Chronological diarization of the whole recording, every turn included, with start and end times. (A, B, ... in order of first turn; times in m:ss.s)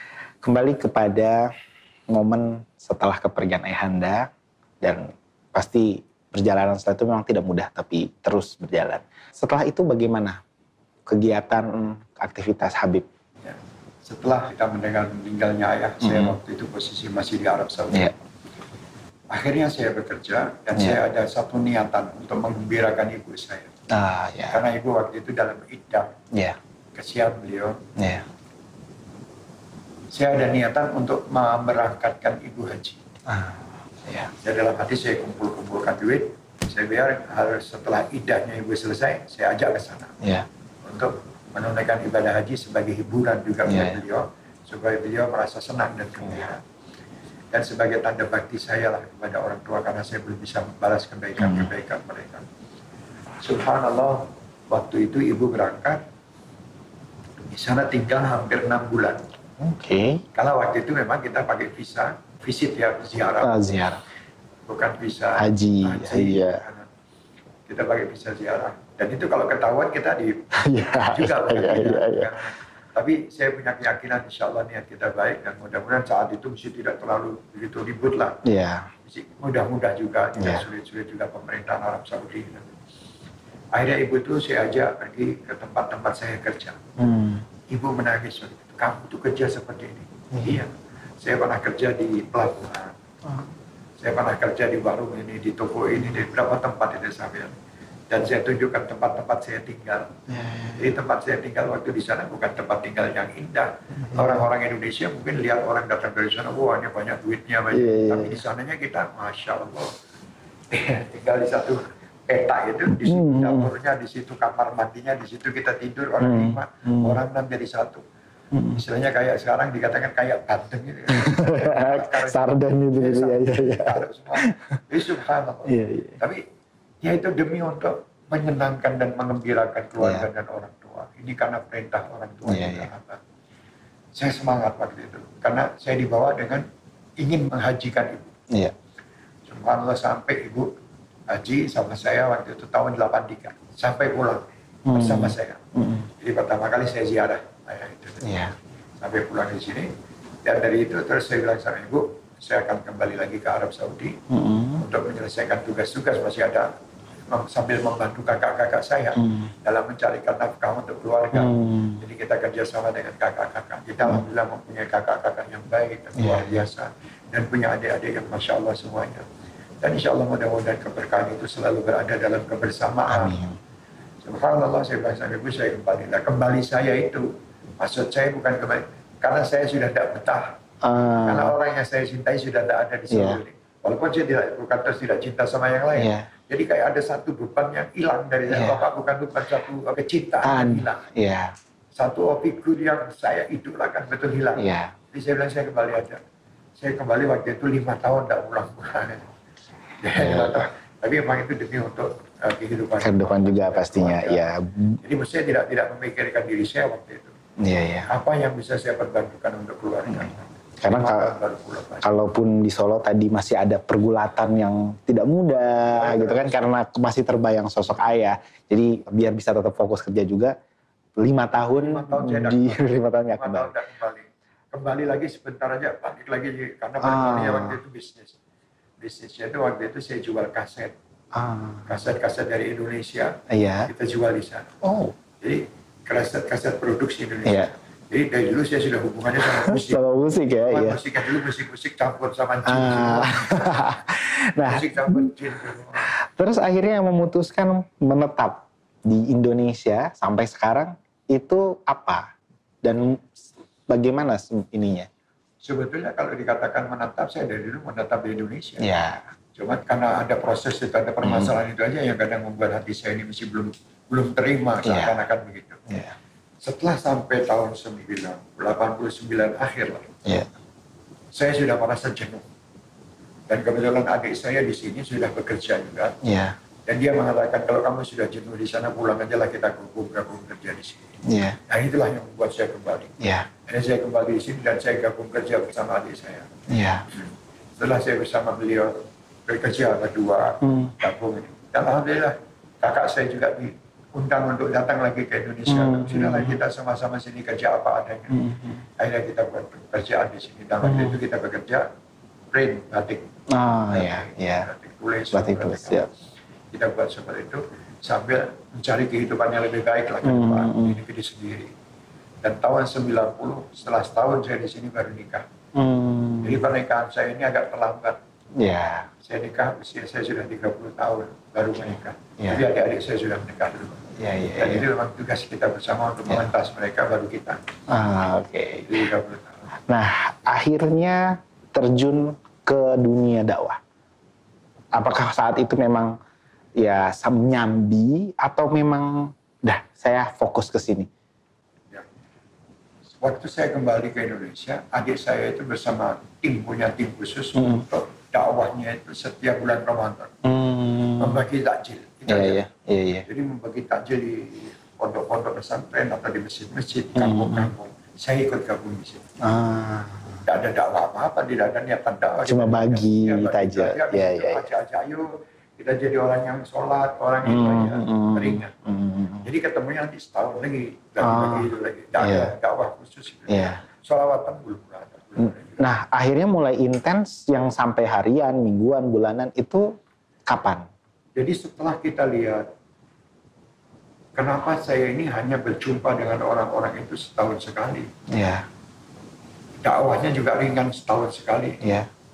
0:00.4-0:01.5 A
0:02.1-0:04.3 A
0:04.8-0:10.4 A
0:11.1-0:13.0 A
0:13.4-0:18.1 B
0:16.0-0:16.4 A
0:19.3-0:23.7 B
0:23.9-0:24.6 A
0:24.5-0:26.1 B
0:26.9-0:27.8 B
0:28.0-0:28.2 A
0:30.1-0:33.0 B
0:33.3-0:34.3 A
0:34.4-0:40.1 B
0:40.8-0:46.6 B
0:43.6-0:44.0 A
0:47.5-0:52.4 B
0:51.4-0:51.7 A
0:53.4-0:56.0 B
0:57.5-0:59.2 B
0:59.6-1:00.2 A
1:00.3-1:03.5 B
1:03.4-1:04.0 A
1:04.7-1:06.9 B
1:05.4-1:06.6 A
1:07.7-1:10.4 B
1:10.6-1:12.3 A
1:11.1-1:18.4 B
1:18.4-1:18.9 A
1:19.0-1:22.7 B
1:20.4-1:20.6 A
1:23.7-1:26.8 B
1:27.0-1:27.4 A
1:27.7-1:30.7 B
1:30.3-1:30.6 A
1:31.2-1:32.9 B
1:34.0-1:37.5 B
1:38.1-1:40.2 B
1:40.3-1:41.0 A
1:40.8-1:49.9 B
1:44.0-1:44.5 A
1:47.7-1:48.4 A
1:50.7-1:58.0 B
1:52.8-1:53.7 A
1:56.2-1:57.2 A
1:58.5-1:58.8 A
1:58.7-2:06.4 B
2:01.1-2:04.6 A
2:05.6-2:06.2 A
2:07.0-2:13.2 B
2:10.0-2:10.2 A
2:12.4-2:12.9 A
2:14.1-2:16.6 B
2:17.2-2:18.3 B
2:19.5-2:20.7 B
2:21.3-2:25.6 B
2:24.9-2:26.1 A
2:26.2-2:28.3 B
2:28.2-2:28.5 A
2:29.0-2:29.9 B
2:30.4-2:34.2 B
2:34.3-2:34.8 A
2:34.8-2:36.7 B
2:37.3-2:49.2 B
2:39.2-2:39.5 A
2:41.3-2:42.0 A
2:46.2-2:46.6 A
2:49.8-2:53.4 B
2:53.1-2:53.6 A
2:54.2-2:57.3 B
2:57.8-3:00.6 B
3:00.8-3:01.6 A
3:01.2-3:11.1 B
3:03.1-3:03.4 A
3:05.9-3:06.3 A
3:08.5-3:08.8 A
3:10.4-3:11.5 A
3:12.0-3:16.2 B
3:14.6-3:14.9 A
3:16.8-3:19.3 B
3:20.0-3:24.4 B
3:20.1-3:20.6 A
3:23.0-3:25.0 A
3:25.0-3:27.3 B
3:27.6-3:28.1 A
3:28.1-3:32.1 B
3:30.8-3:31.3 A
3:32.0-3:40.5 A
3:35.6-3:36.7 B
3:41.2-3:43.7 A
3:41.7-3:48.4 B
3:47.0-3:47.8 A
3:49.0-3:50.9 B
3:51.3-3:52.0 A
3:51.9-3:53.3 B
3:53.5-3:53.9 A
3:53.9-3:54.7 B
3:54.8-3:55.1 A
3:55.4-4:00.0 B
3:57.4-3:57.7 A
3:59.4-4:01.0 A
4:00.6-4:03.8 B
4:02.7-4:05.3 A
4:04.6-4:06.1 B
4:06.1-4:12.2 A
4:12.8-4:15.1 A
4:15.6-4:18.9 B
4:18.8-4:19.2 A
4:19.6-4:25.8 B
4:21.2-4:21.5 A
4:24.8-4:25.2 A
4:25.9-4:26.1 A
4:26.6-4:30.1 B
4:31.3-4:32.4 B
4:33.5-4:36.1 B
4:36.2-4:36.6 A
4:36.9-4:41.1 B
4:41.3-4:41.6 A
4:41.7-4:43.1 B
4:43.2-4:43.5 A
4:43.7-4:46.5 B
4:46.7-4:47.0 A
4:47.8-4:48.9 B
4:49.5-4:58.3 B
4:50.6-4:50.9 A
4:55.7-4:56.6 A
4:58.3-4:58.8 A
4:59.0-5:01.8 B
5:00.8-5:01.2 A
5:02.5-5:03.2 B
5:03.5-5:04.7 A
5:03.9-5:06.0 B
5:05.3-5:06.1 A
5:06.7-5:11.7 B
5:10.2-5:11.0 A
5:12.4-5:15.4 B
5:15.8-5:16.6 A
5:16.4-5:18.2 B
5:18.6-5:19.1 A
5:19.2-5:27.6 B
5:21.8-5:22.6 A
5:24.2-5:24.8 A
5:27.9-5:29.0 A
5:28.8-5:29.7 B
5:29.9-5:33.8 A
5:34.9-5:36.1 A
5:36.8-5:41.1 A
5:43.2-5:50.3 B
5:47.5-5:47.8 A
5:50.4-5:51.4 A
5:51.2-5:52.6 B
5:52.3-5:53.2 A
5:53.2-5:59.2 B
5:57.1-5:57.7 A
5:59.4-6:00.4 A
6:00.4-6:08.7 B
6:02.4-6:04.7 A
6:07.4-6:09.5 A
6:09.4-6:15.8 B
6:11.2-6:12.5 A
6:13.5-6:13.8 A
6:15.4-6:19.9 A
6:20.5-6:20.9 A
6:21.4-6:22.6 B
6:24.4-6:28.1 B
6:28.3-6:28.6 A
6:29.8-6:31.8 B
6:31.8-6:32.1 A